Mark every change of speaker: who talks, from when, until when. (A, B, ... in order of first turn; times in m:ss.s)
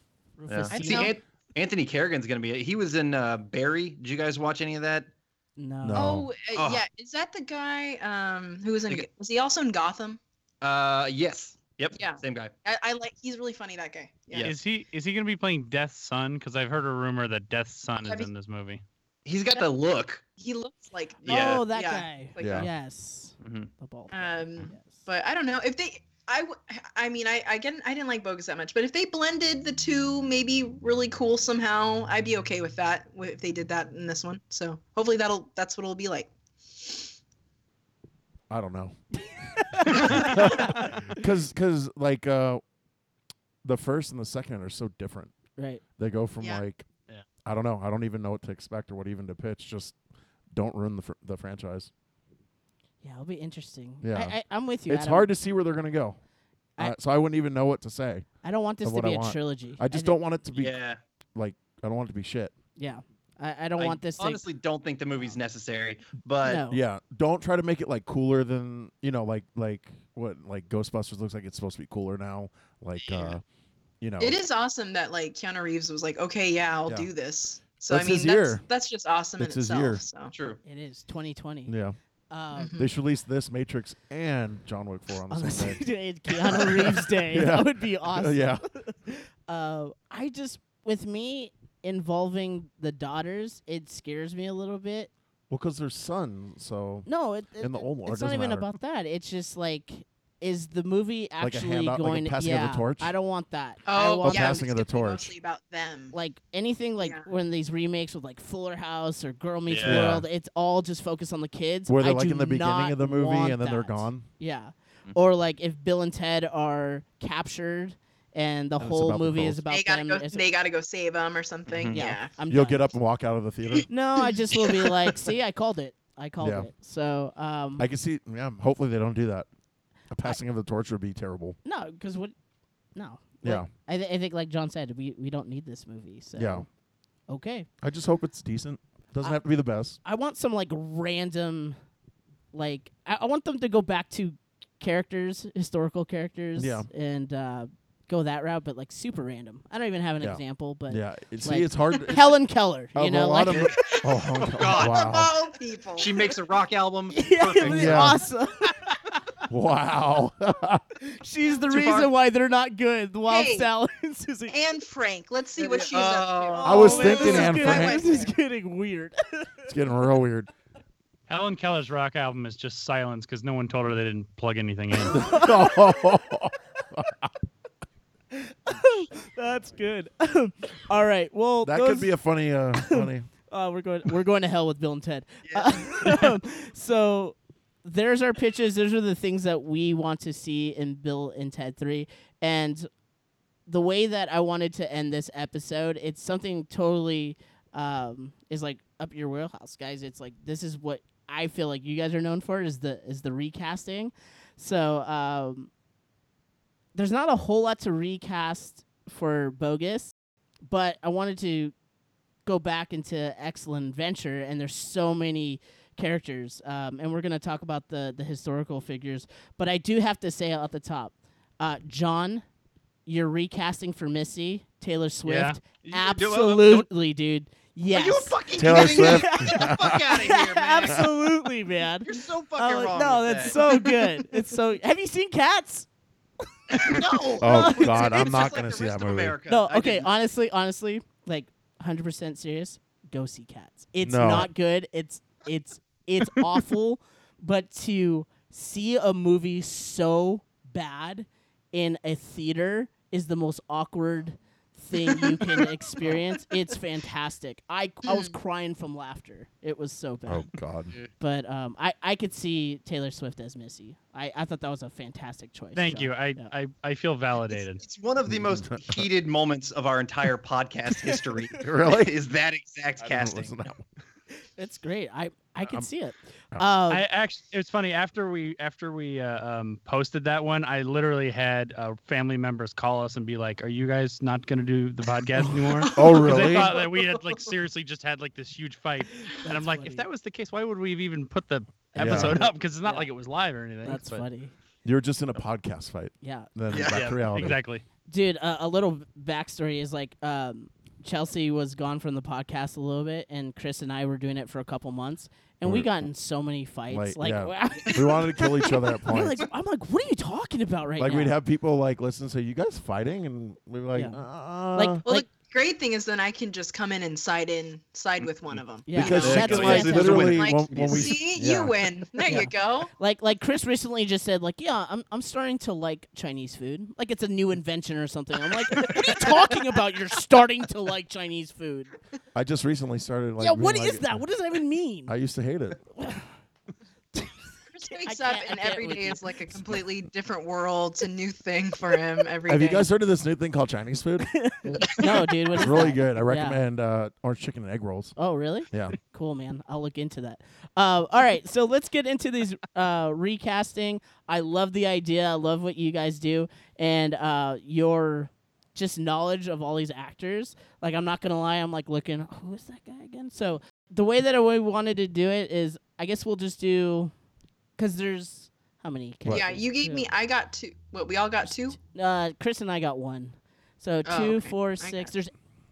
0:00.4-0:01.1 A
0:00.5-0:05.1 B
0:00.7-0:01.1 C
0:05.6-0:06.1 A
0:05.8-0:06.3 D
0:05.9-0:10.2 C
0:06.5-0:06.8 B
0:10.6-0:12.5 B
0:12.0-0:14.4 C
0:14.4-0:18.8 E
0:18.0-0:18.3 C
0:19.2-0:20.2 B
0:20.4-0:22.6 C
0:21.2-0:21.6 B
0:21.2-0:25.0 A
0:22.4-0:22.7 D
0:23.4-0:23.7 B
0:24.1-0:37.1 C
0:38.5-0:39.0 D
0:39.3-0:41.1 A
0:39.8-0:42.6 D
0:40.0-0:40.4 C
0:43.6-0:45.3 D
0:45.6-0:45.8 A
0:46.0-0:46.8 D
0:47.4-0:49.9 D
0:50.5-0:51.9 D
0:53.0-0:55.3 A
0:54.0-0:56.2 D
0:56.8-0:58.3 D
0:58.4-1:00.2 A
0:58.8-1:00.7 D
1:00.5-1:01.0 B
1:01.3-1:02.5 D
1:02.8-1:04.4 A
1:03.8-1:06.6 B
1:06.4-1:06.8 A
1:06.7-1:13.4 D
1:13.0-1:13.4 B
1:14.0-1:14.4 D
1:14.2-1:20.3 C
1:17.9-1:18.6 D
1:19.4-1:20.0 D
1:20.3-1:20.6 B
1:20.6-1:21.7 A
1:21.7-1:22.0 D
1:22.3-1:22.7 A
1:22.5-1:22.8 C
1:22.8-1:25.8 D
1:25.3-1:35.1 A
1:27.3-1:28.6 D
1:35.5-1:37.1 D
1:37.0-1:44.6 A
1:37.6-1:38.7 D
1:41.4-1:43.1 D
1:43.8-1:46.2 C
1:44.2-1:45.3 D
1:46.1-2:00.4 A
1:47.0-1:47.3 C
1:49.7-1:50.0 B
1:49.8-1:50.2 D
1:51.9-1:54.3 D
1:58.8-1:59.6 D
1:59.7-2:02.3 C
2:01.7-2:02.0 B
2:01.9-2:02.9 A
2:02.5-2:03.9 D
2:03.9-2:07.9 A
2:04.2-2:04.9 C
2:06.4-2:06.7 D
2:07.8-2:09.5 D
2:10.1-2:11.6 D
2:11.6-2:12.3 A
2:12.9-2:16.7 A
2:13.4-2:13.7 D
2:16.4-2:16.6 D
2:17.3-2:17.7 A
2:17.8-2:20.0 D
2:20.0-2:21.8 A
2:22.5-2:33.7 A
2:26.6-2:26.9 D
2:30.2-2:32.3 D
2:32.9-2:35.3 D
2:34.4-2:35.3 B
2:34.7-2:36.4 C
2:36.0-2:38.2 B
2:37.1-2:38.7 A
2:37.6-2:38.2 D
2:39.5-2:40.8 D
2:41.0-2:44.6 A
2:41.7-2:42.1 B
2:43.3-2:43.7 C
2:44.5-2:48.3 C
2:45.6-2:47.2 B
2:46.6-2:49.7 A
2:46.6-2:48.0 D
2:49.7-2:50.5 D
2:51.3-2:55.2 E
2:55.1-2:55.8 A
2:55.1-2:57.3 D
2:58.7-3:02.1 A
3:01.6-3:03.3 D
3:02.7-3:12.9 A
3:05.5-3:06.3 B
3:13.7-3:25.7 A
3:26.9-3:30.1 A
3:30.7-3:31.7 A
3:32.4-3:42.4 A
3:43.0-3:55.9 A
3:45.2-3:45.6 E
3:45.8-3:46.9 B
3:47.9-3:51.1 B
3:48.5-3:50.1 D
3:52.0-3:53.6 B
3:56.7-3:58.1 A
3:56.7-4:00.1 B
3:57.4-3:59.4 D
3:59.5-4:20.5 A
4:04.0-4:04.5 D
4:18.0-4:18.3 C
4:20.3-4:20.9 D
4:21.2-4:26.5 A
4:25.7-4:27.8 E
4:27.8-4:33.5 B
4:28.2-4:29.1 D
4:31.6-4:32.1 D
4:33.0-4:33.8 D
4:34.6-4:37.0 A
4:35.6-4:35.9 D
4:36.9-4:54.2 E
4:45.8-4:46.7 C
4:45.9-4:46.7 D
4:49.3-4:50.0 A
4:51.9-4:53.1 A
4:52.0-4:52.4 D
4:53.8-4:54.5 A
4:54.8-4:57.6 D
4:56.2-4:56.5 A
4:56.7-4:57.5 B
4:56.8-4:57.8 E
4:58.1-5:11.4 A
5:05.6-5:06.1 D
5:06.9-5:09.4 D
5:11.0-5:15.0 D
5:13.9-5:14.2 A
5:14.7-5:15.2 A
5:15.0-5:22.9 C
5:18.2-5:21.2 B
5:18.8-5:20.4 A
5:18.9-5:21.8 D
5:22.2-5:31.9 A
5:29.0-5:29.3 C
5:32.3-5:34.2 D
5:33.4-5:35.1 A
5:35.1-5:35.8 D
5:36.0-5:36.3 A
5:37.7-5:42.9 C
5:37.9-5:39.4 A
5:42.5-5:44.9 D
5:44.3-5:46.6 A
5:45.5-5:48.1 D
5:48.2-6:07.1 A
5:48.7-5:49.0 D
6:07.8-6:10.1 A
6:09.3-6:11.8 C
6:11.5-6:15.3 A
6:14.0-6:15.1 C